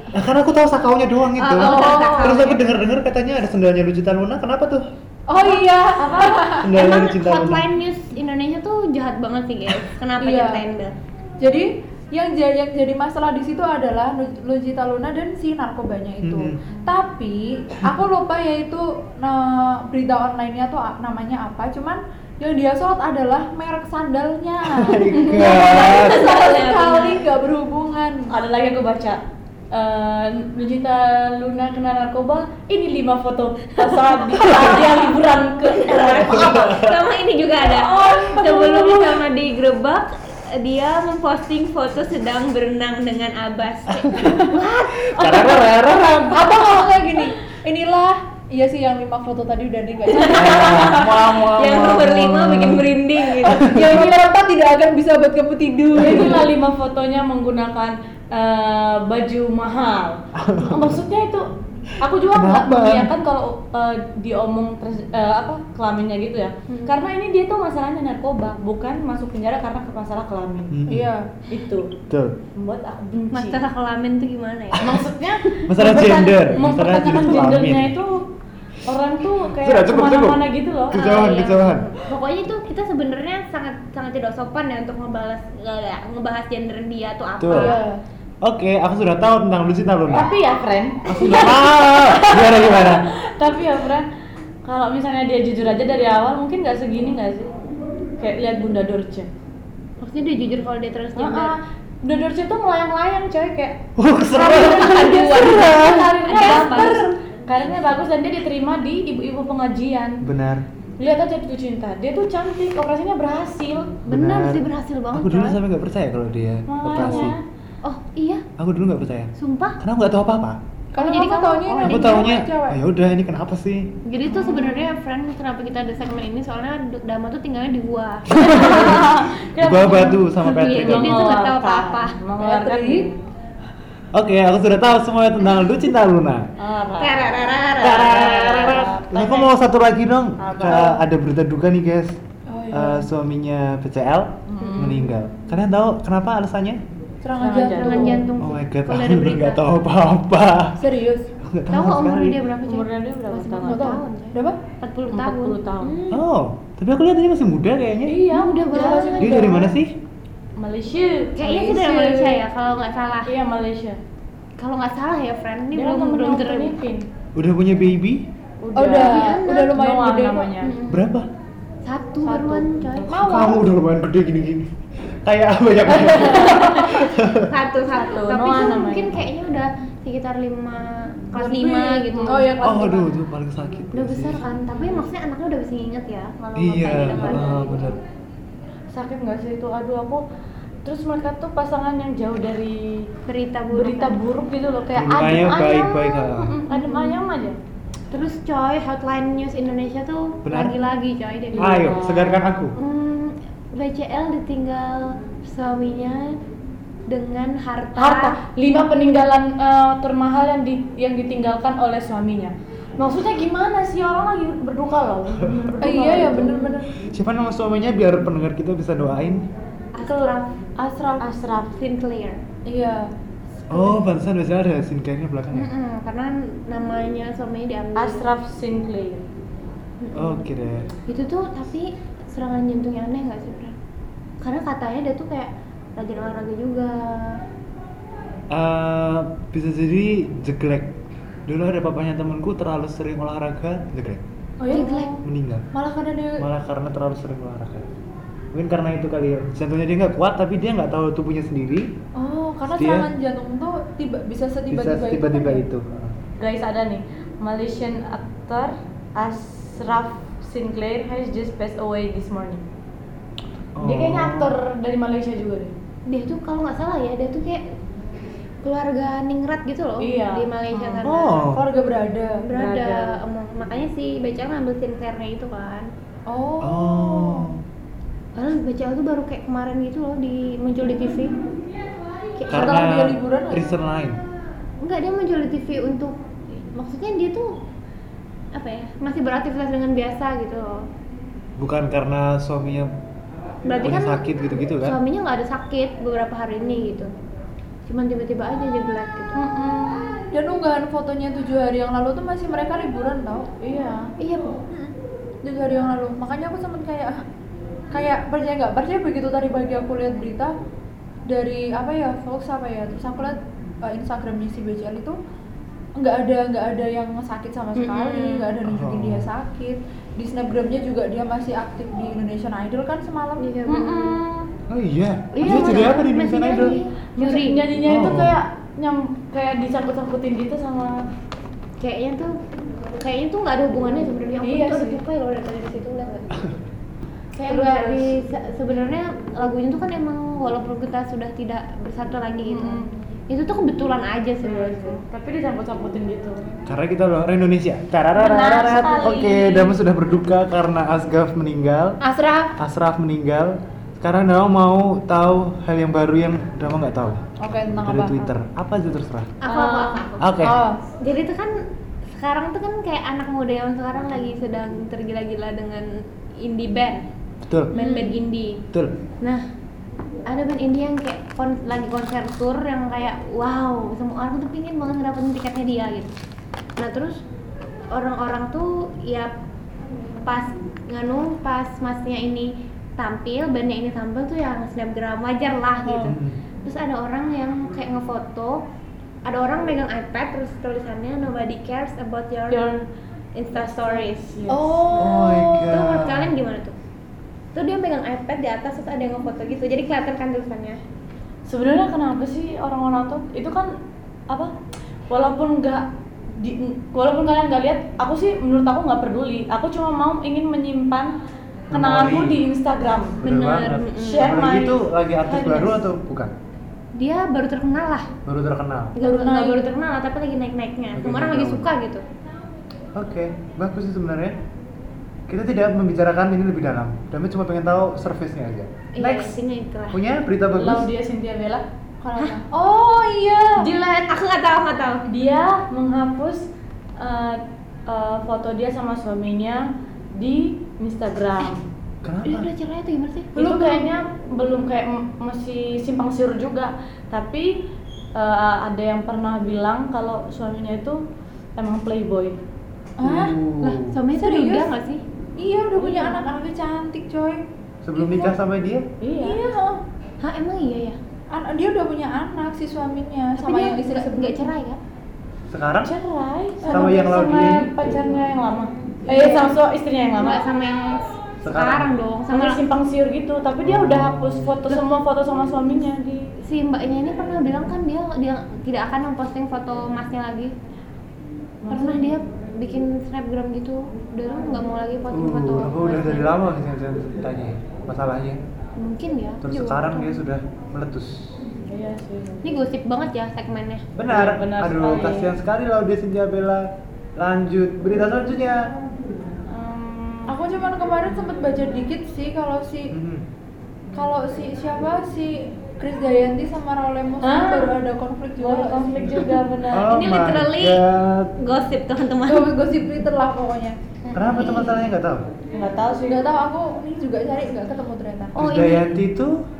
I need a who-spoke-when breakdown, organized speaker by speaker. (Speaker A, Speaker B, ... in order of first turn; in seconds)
Speaker A: 0.1-4.8, 6.6-7.7, 16.2-16.6, 24.7-26.2, 36.2-37.0, 44.0-46.3, 50.3-52.9, 53.6-54.0, 60.4-61.0, 62.3-63.1, 70.7-71.1, 72.1-72.4, 74.7-75.0, 75.6-77.9, 79.6-81.9, 87.4-87.8, 88.4-90.3, 91.0-93.0, 104.0-106.0, 110.2-110.6, 114.1-117.4, 118.6-120.6, 121.8-123.9, 128.3-129.0, 129.6-131.3, 134.1-136.5, 137.8-142.2, 142.7-146.8, 148.4-150.8, 151.4-152.4, 156.1-158.2, 159.2-160.0, 167.3-168.3, 170.9-171.3, 173.2-177.5, 182.6-184.5, 186.6-188.0, 194.9-196.5, 200.4-200.8, 201.6-202.8, 217.0-219.5, 223.7-225.7, 230.1-230.9, 238.5-240.9, 241.5-244.2, 245.2-245.7, 246.4-247.9, 248.5-251.9, 252.7-253.1, 254.7-256.1, 263.8-264.5, 271.0-271.6, 276.6-277.6, 282.5-284.2, 291.6-292.9, 293.8-295.0, 318.6-319.3, 324.7-326.8, 327.8-328.4, 346.6-352.0, 352.6-357.2, 357.8-359.3, 360.2-360.6, 367.4-367.7, 386.0-386.4, 395.0-396.3, 411.7-412.4, 413.2-416.3, 418.2-418.9, 420.9-421.7, 422.9-424.4, 425.3-429.4, 429.9-430.9, 442.0-442.5, 453.0-453.9, 457.8-458.9, 465.5-465.9, 466.6-467.7, 471.4-471.9, 473.6-474.6, 485.1-488.4, 489.4-491.4, 493.9-498.7, 502.9-503.2, 509.7-511.3, 514.1-515.3, 518.4-519.4
Speaker B: 1.4-2.6, 6.2-10.9, 25.1-27.3, 34.1-46.6, 50.1-54.1, 66.7-67.0, 73.3-74.9, 80.9-87.8, 100.0-101.5, 105.1-107.1, 114.0-115.6, 116.9-118.4, 119.3-119.8, 121.0-122.4, 124.0-129.1, 129.9-132.2, 135.4-135.7, 137.0-138.3, 147.8-149.7, 151.7-156.2, 158.2-159.7, 161.4-163.3, 164.6-166.8, 168.9-169.8, 170.6-171.1, 171.8-173.6, 177.3-182.4, 183.9-188.0, 193.2-194.2, 196.7-197.2, 198.1-201.9, 202.8-206.4, 207.1-208.4, 219.9-220.6, 221.7-222.4, 225.5-228.2, 230.0-230.5, 231.1-233.8, 234.4-237.4, 244.7-245.2, 266.1-267.6, 268.6-271.3, 272.4-275.9, 278.4-281.3, 282.4-282.7, 284.8-287.5, 288.5-290.8, 293.6-297.1, 297.8-299.4, 304.2-304.9, 317.8-318.6, 323.4-324.2, 325.3-327.6, 331.8-332.3, 333.0-336.4, 337.3-345.0, 359.4-361.5, 362.1-365.8, 366.4-367.0, 367.7-368.6, 370.3-376.1, 376.8-377.2, 377.9-379.3, 380.2-388.6, 389.2-392.6, 393.3-396.7, 397.5-400.8, 413.3-414.2, 416.9-418.1, 418.9-422.0, 428.9-430.0, 434.0-435.1, 442.2-443.5, 453.6-455.0, 460.2-461.0, 463.4-464.8, 469.1-469.5, 470.2-472.6, 476.4-480.5, 481.7-486.3, 488.8-490.2, 492.4-493.9, 509.0-510.8, 511.4-512.5, 514.0-514.8, 518.4-518.9
Speaker C: 1.6-2.6, 5.3-6.8, 10.2-10.6, 11.4-28.3, 46.2-51.0, 53.4-56.5, 70.9-71.4, 87.5-88.0, 120.9-122.8, 132.4-133.1, 142.5-143.1, 147.2-148.3, 150.8-151.3, 153.6-154.6, 158.7-159.6, 161.4-162.4, 168.7-170.6, 172.2-173.7, 181.3-183.1, 215.8-216.8, 220.9-221.2, 222.7-223.1, 223.7-224.0, 244.6-245.0, 245.7-246.4, 252.1-255.6, 271.4-272.4, 276.3-277.5, 282.5-283.7, 300.3-303.5, 305.4-307.2, 307.9-310.5, 311.3-315.1, 316.0-323.5, 325.4-325.8, 352.0-352.5, 357.4-358.3, 360.4-360.8, 419.0-419.7, 432.0-433.7, 443.4-443.9, 453.0-453.4, 454.1-454.7, 455.4-457.4, 457.9-458.3, 459.2-459.8, 461.3-464.4, 466.6-467.1, 469.1-469.6, 500.3-502.9, 503.9-509.0, 512.3-513.7, 516.1-518.4
Speaker D: 5.4-6.4, 28.3-36.5, 37.5-39.3, 56.0-61.5, 62.0-70.8, 71.5-71.9, 72.5-73.6, 74.8-78.3, 78.8-81.0, 90.1-94.1, 94.6-97.5, 98.2-99.3, 101.2-103.8, 104.3-110.2, 111.0-114.0, 116.7-117.4, 124.3-124.9, 128.4-133.1, 136.6-137.4, 138.0-139.5, 140.4-141.0, 144.5-145.1, 147.4-148.2, 152.6-154.0, 155.1-156.0, 158.0-159.7, 160.6-161.4, 163.2-164.0, 165.7-167.1, 168.6-170.7, 175.8-177.1, 177.9-179.2, 182.1-182.9, 188.9-190.2, 190.8-193.1, 193.7-197.6, 201.5-202.4, 207.9-216.8, 220.0-221.8, 227.9-229.2, 244.8-245.1, 256.4-262.6, 263.8-265.7, 270.0-271.1, 272.5-273.2, 299.3-300.2, 303.6-304.1, 323.7-324.5, 327.1-330.9, 334.4-335.0, 337.4-338.1, 342.4-342.9, 344.4-346.4, 348.1-349.8, 359.4-360.1, 367.8-368.1, 392.5-392.8, 393.5-395.2, 401.4-403.7, 405.1-405.9, 406.4-411.1, 411.7-413.4, 414.0-415.8, 430.5-431.6, 433.6-434.1, 435.1-441.6, 443.4-451.0, 451.6-452.4, 455.8-456.3, 459.0-459.4, 465.8-470.4, 472.3-476.3, 481.6-482.1, 491.6-492.5, 494.1-495.3, 499.5-500.3, 507.2-507.8, 508.4-510.0, 515.5-516.2